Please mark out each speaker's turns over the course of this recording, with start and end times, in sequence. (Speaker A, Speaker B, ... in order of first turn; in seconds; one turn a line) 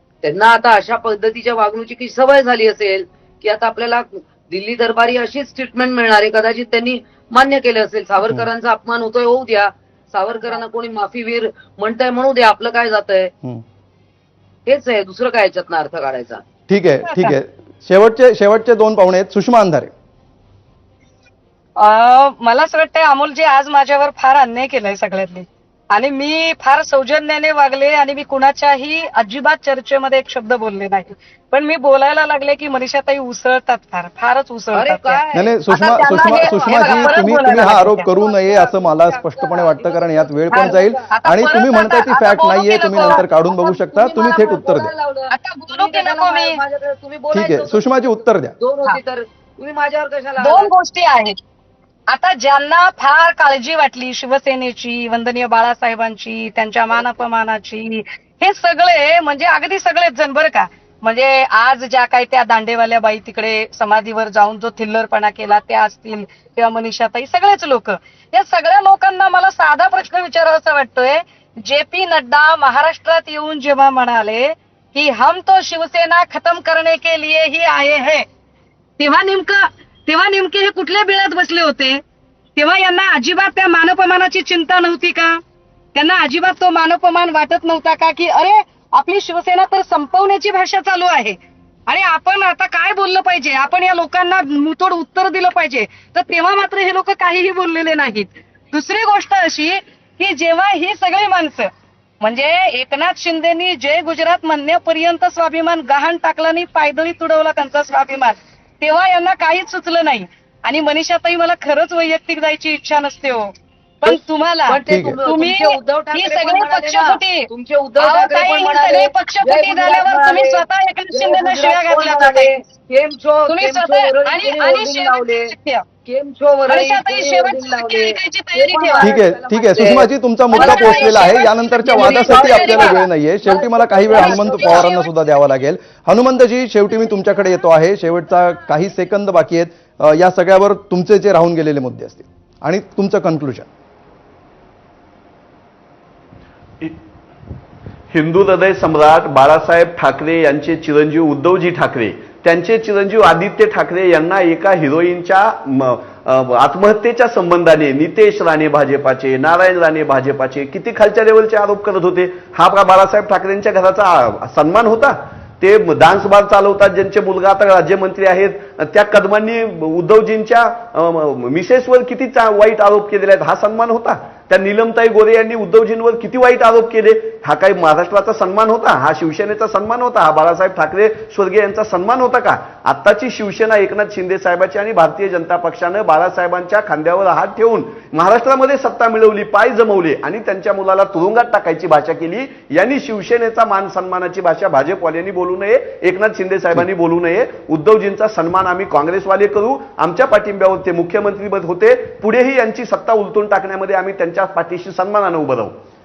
Speaker A: 0.2-13.3
Speaker A: 14.7-16.4
Speaker B: 16.7-19.9
Speaker C: 17.1-17.4
Speaker C: 21.8-38.1
Speaker A: 34.7-41.1
Speaker B: 35.3-44.9
Speaker C: 40.5-43.2
Speaker A: 42.9-50.7
Speaker C: 45.3-46.6
Speaker B: 47.3-48.5
Speaker C: 50.4-51.4
Speaker C: 52.1-78.2
Speaker A: 56.9-57.2
Speaker C: 79.0-82.0
Speaker C: 82.6-85.4
Speaker C: 86.0-91.4
Speaker C: 91.9-101.7
Speaker C: 102.2-117.5
Speaker A: 114.1-125.5
Speaker B: 114.9-115.2
Speaker C: 118.0-122.6
Speaker C: 123.5-125.8
Speaker A: 126.1-134.9
Speaker C: 126.7-129.1
Speaker B: 129.0-143.7
Speaker C: 130.5-133.0
Speaker C: 134.1-135.1
Speaker D: 148.1-205.7